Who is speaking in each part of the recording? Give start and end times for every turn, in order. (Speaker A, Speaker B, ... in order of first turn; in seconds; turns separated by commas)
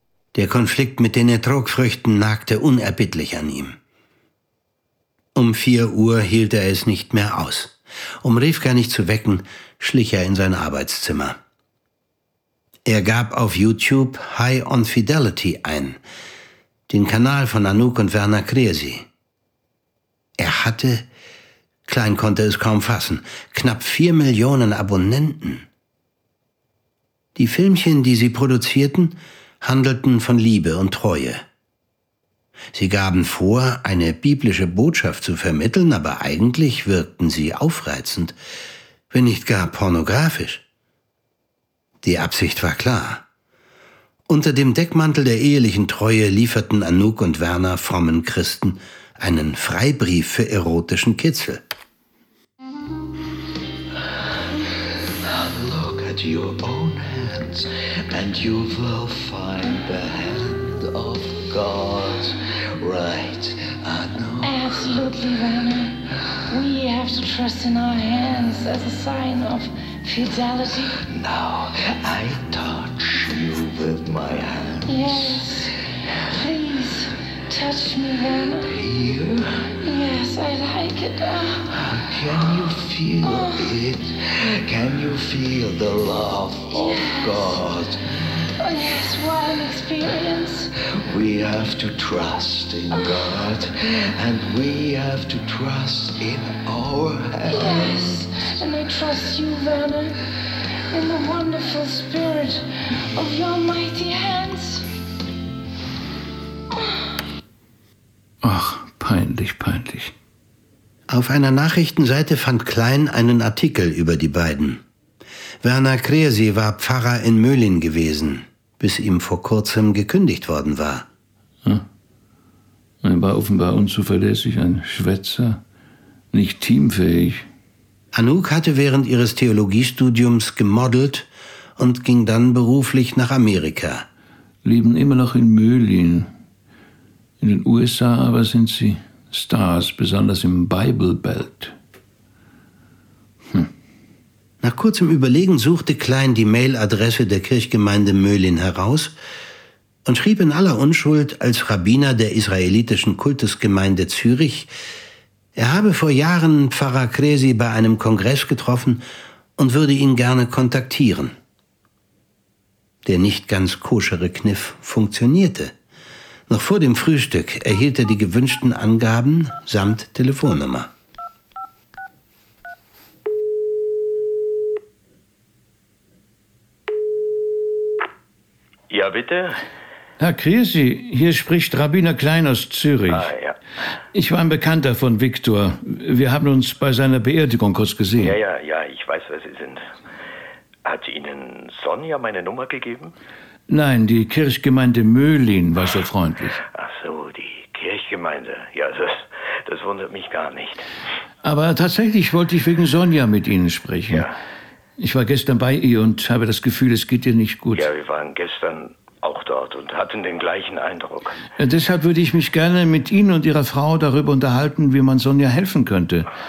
Speaker A: 0.3-3.8, Speaker A: 5.3-11.4, Speaker A: 12.8-16.0, Speaker A: 16.9-19.1, Speaker A: 20.4-21.1, Speaker A: 21.9-25.6, Speaker A: 27.4-31.4, Speaker A: 32.7-38.4, Speaker A: 39.1-40.6, Speaker A: 42.0-43.2, Speaker A: 44.3-51.6, Speaker B: 55.2-65.0, Speaker C: 64.4-71.0, Speaker B: 71.0-75.4, Speaker C: 74.8-75.7, Speaker C: 76.3-78.7, Speaker B: 78.7-79.6, Speaker C: 79.8-81.7, Speaker B: 81.7-88.0, Speaker C: 83.2-83.7, Speaker C: 86.7-87.6, Speaker C: 88.6-90.7, Speaker B: 91.0-98.2, Speaker C: 97.5-100.2, Speaker C: 100.9-104.8, Speaker D: 108.4-110.1, Speaker A: 111.1-114.8, Speaker A: 115.6-121.1, Speaker D: 123.0-125.6, Speaker D: 126.3-127.4, Speaker A: 128.1-134.0, Speaker D: 134.6-136.3, Speaker D: 137.4-141.7, Speaker A: 144.6-149.1, Speaker A: 150.0-154.7, Speaker A: 155.5-159.0, Speaker A: 159.6-161.3, Speaker A: 163.0-165.7, Speaker A: 166.5-170.9, Speaker E: 178.9-179.7, Speaker D: 180.2-183.3, Speaker E: 183.1-183.6, Speaker D: 184.1-188.3, Speaker E: 188.2-189.9, Speaker E: 190.8-193.1, Speaker D: 193.7-196.6, Speaker E: 196.7-200.8, Speaker D: 201.4-204.3, Speaker E: 204.1-204.3, Speaker D: 205.0-207.9, Speaker E: 207.7-211.4, Speaker D: 211.6-216.3